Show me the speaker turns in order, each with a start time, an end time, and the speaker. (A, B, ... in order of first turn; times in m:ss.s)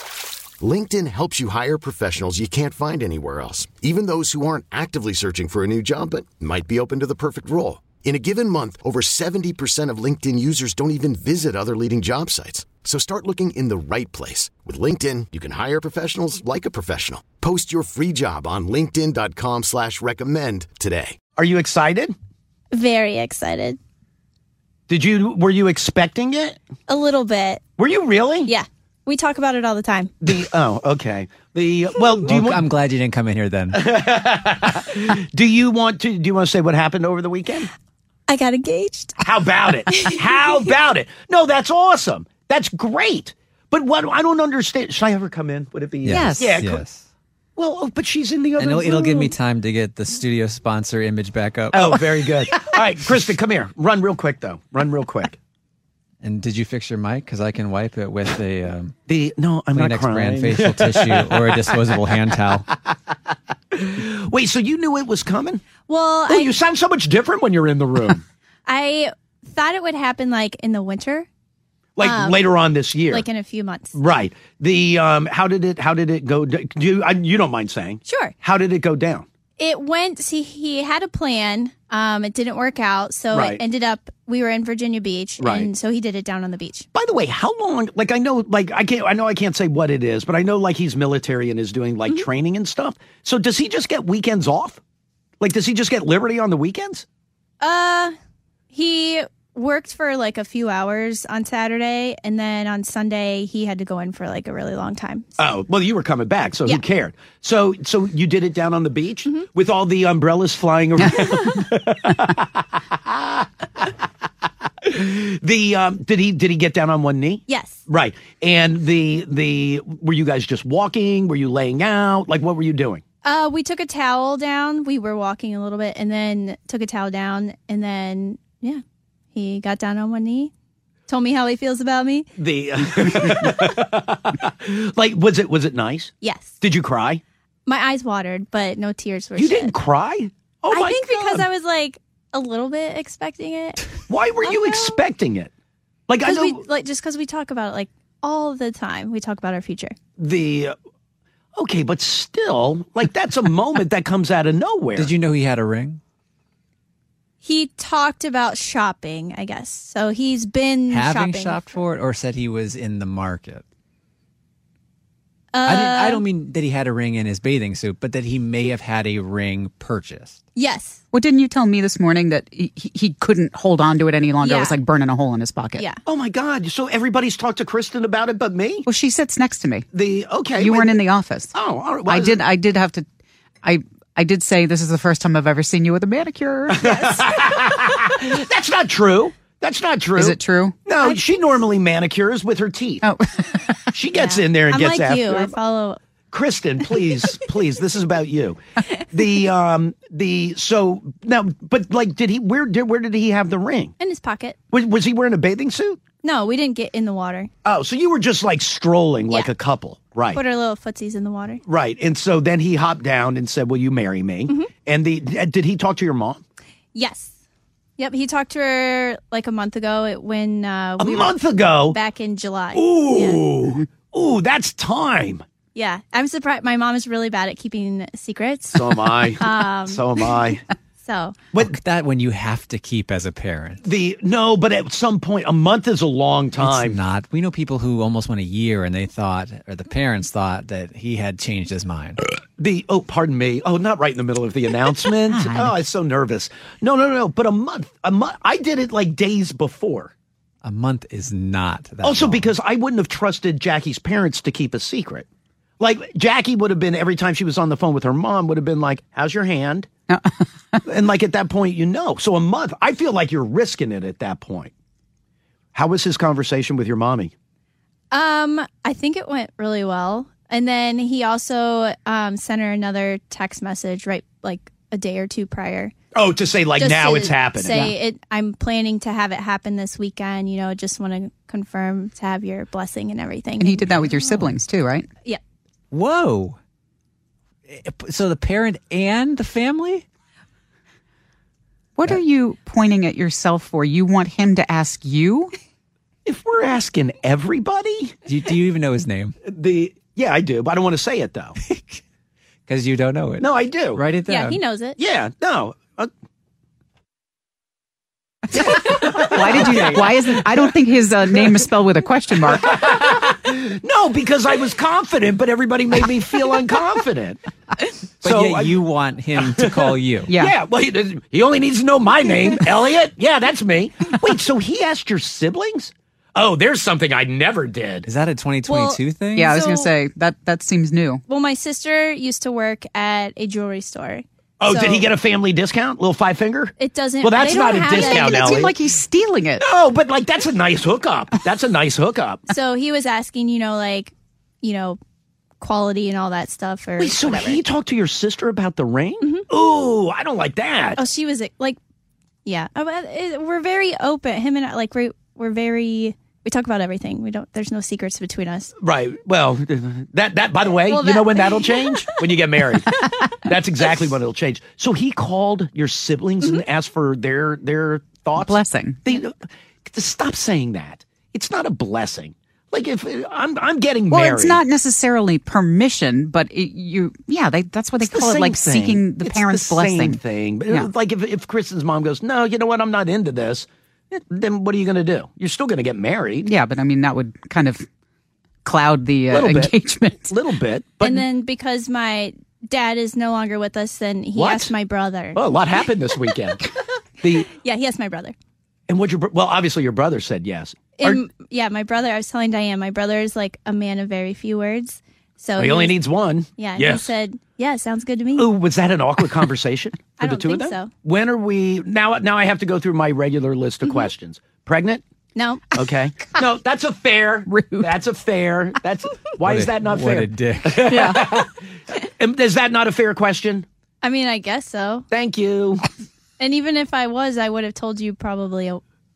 0:00.6-0:21.2 A
0:21.4-0:22.1 B
0:22.7-0:23.8 C
0:24.9-0:26.6 B
0:26.9-0:27.6 C
0:27.8-0:28.5 B
0:28.4-0:30.1 C
0:30.2-0:32.6 B
0:32.2-0:33.8 D
0:33.7-0:37.7 B
0:38.3-0:39.3 C
0:39.2-0:46.8 B
0:39.8-0:40.4 C
0:46.0-0:47.0 D
0:46.1-0:46.6 E
0:47.6-0:49.3 B
0:48.6-0:52.2 D
0:51.7-0:55.4 B
0:56.2-0:58.9 D
0:59.1-1:01.8 B
0:59.7-1:02.6 D
1:03.7-1:05.6 B
1:05.8-1:06.5 C
1:06.3-1:08.2 B
1:08.7-1:11.3 C
1:12.0-1:13.2 B
1:12.0-1:13.9 C
1:13.9-1:19.2 B
1:18.0-1:18.4 C
1:19.6-1:26.9 C
1:23.3-1:23.6 B
1:25.4-1:25.7 B
1:26.9-1:34.8 B
1:35.4-1:37.0 B
1:37.6-1:38.1 C
1:38.7-1:45.4 C
1:45.4-1:53.4 B
1:54.8-2:03.0 B
1:57.5-1:57.8 C
2:03.2-2:08.8 C
2:09.3-2:10.5 C
2:11.1-2:12.3 C
2:12.4-2:17.2 B
2:16.2-2:16.6 C
2:17.6-2:19.7 C
2:19.4-2:21.5 B
2:20.7-2:23.9 C
2:24.1-2:25.5 B
2:24.4-2:25.0 C
2:26.1-2:26.6 B
2:26.2-2:30.0 C
2:30.2-2:30.8 B
2:31.6-2:35.1 B
2:35.0-2:36.0 D
2:37.4-2:41.7 C
2:40.9-2:43.6 D
2:45.5-2:46.2 C
2:45.6-2:50.4 D
2:50.6-2:51.0 C
2:51.1-2:55.9 E
2:54.4-2:54.8 C
2:56.0-2:58.9 B
2:58.8-2:59.9 E
2:59.9-3:01.0 B
3:00.5-3:01.5 E
3:01.5-3:02.4 B
3:02.0-3:03.0 E
3:03.6-3:06.9 E
3:06.7-3:13.0 B
3:06.8-3:07.2 C
3:10.2-3:10.8 E
3:13.0-3:14.0 E
3:13.9-3:15.5 B
3:14.1-3:16.0 C
3:16.3-3:18.6 B
3:19.1-3:23.9 B
3:24.0-3:24.6 C
3:24.7-3:26.0 B
3:26.2-3:27.5 C
3:27.6-3:30.4 B
3:30.3-3:31.6 C
3:31.6-3:36.4 B
3:34.5-3:34.7 C
3:36.9-3:37.3 C
3:38.0-3:43.5 C
3:41.0-3:42.0 B
3:42.7-3:45.4 B
3:45.7-3:50.1 C
3:48.7-3:50.6 B
3:51.0-3:51.5 C
3:51.6-3:53.8 D
3:53.8-3:57.0 B
3:56.6-4:02.2 D
4:02.6-4:10.1 B
4:05.4-4:05.7 E
4:10.6-4:12.5 D
4:12.0-4:15.2 B
4:15.8-4:19.9 B
4:20.1-4:20.8 E
4:20.8-4:24.7 B
4:25.7-4:27.3 B
4:28.1-4:35.9 C
4:36.1-4:37.8 B
4:36.8-4:44.5 C
4:43.6-4:45.1 E
4:45.9-4:46.6 D
4:47.7-4:50.0 D
4:52.0-4:55.5 E
4:56.2-4:58.2 B
4:58.2-4:59.3 D
4:59.4-5:01.6 B
5:01.6-5:02.0 D
5:02.7-5:04.6 D
5:03.4-5:04.1 B
5:04.2-5:05.0 C
5:05.0-5:06.1 B
5:08.5-5:10.7 B
5:09.2-5:12.7 E
5:12.4-5:17.4 B
5:18.2-5:18.8 B
5:18.2-5:20.3 D
5:19.4-5:28.1 B
5:20.3-5:20.5 E
5:28.0-5:29.5 D
5:28.7-5:29.9 C
5:29.4-5:31.2 E
5:31.3-5:35.1 C
5:34.6-5:38.7 B
5:36.8-5:38.7 C
5:37.9-5:39.6 E
5:39.6-5:42.4 B
5:42.5-5:45.0 C
5:45.6-5:47.6 C
5:47.0-5:51.0 B
5:51.0-5:51.8 C
5:52.4-5:58.7 C
5:58.8-6:09.4 B
6:00.7-6:03.2 C
6:08.3-6:09.1 E
6:09.9-6:14.6 B
6:14.1-6:20.9 E
6:18.0-6:26.5 B
6:26.4-6:27.9 E
6:28.6-6:30.4 E
6:29.3-6:29.7 B
6:30.3-6:31.3 B
6:31.0-6:35.5 C
6:34.3-6:34.7 B
6:35.3-6:36.6 B
6:37.2-6:37.5 B
6:37.3-6:38.3 C
6:38.9-6:41.2 B
6:40.9-6:48.6 C
6:45.6-6:47.1 B
6:48.4-6:55.0 B
6:50.2-6:51.0 C
6:55.3-6:55.8 C
6:55.7-7:03.6 B
6:57.5-6:57.9 E
6:59.4-7:01.0 D
7:00.8-7:01.2 C
7:01.0-7:01.3 E
7:04.0-7:05.0 C
7:05.1-7:05.8 B
7:06.4-7:08.8 C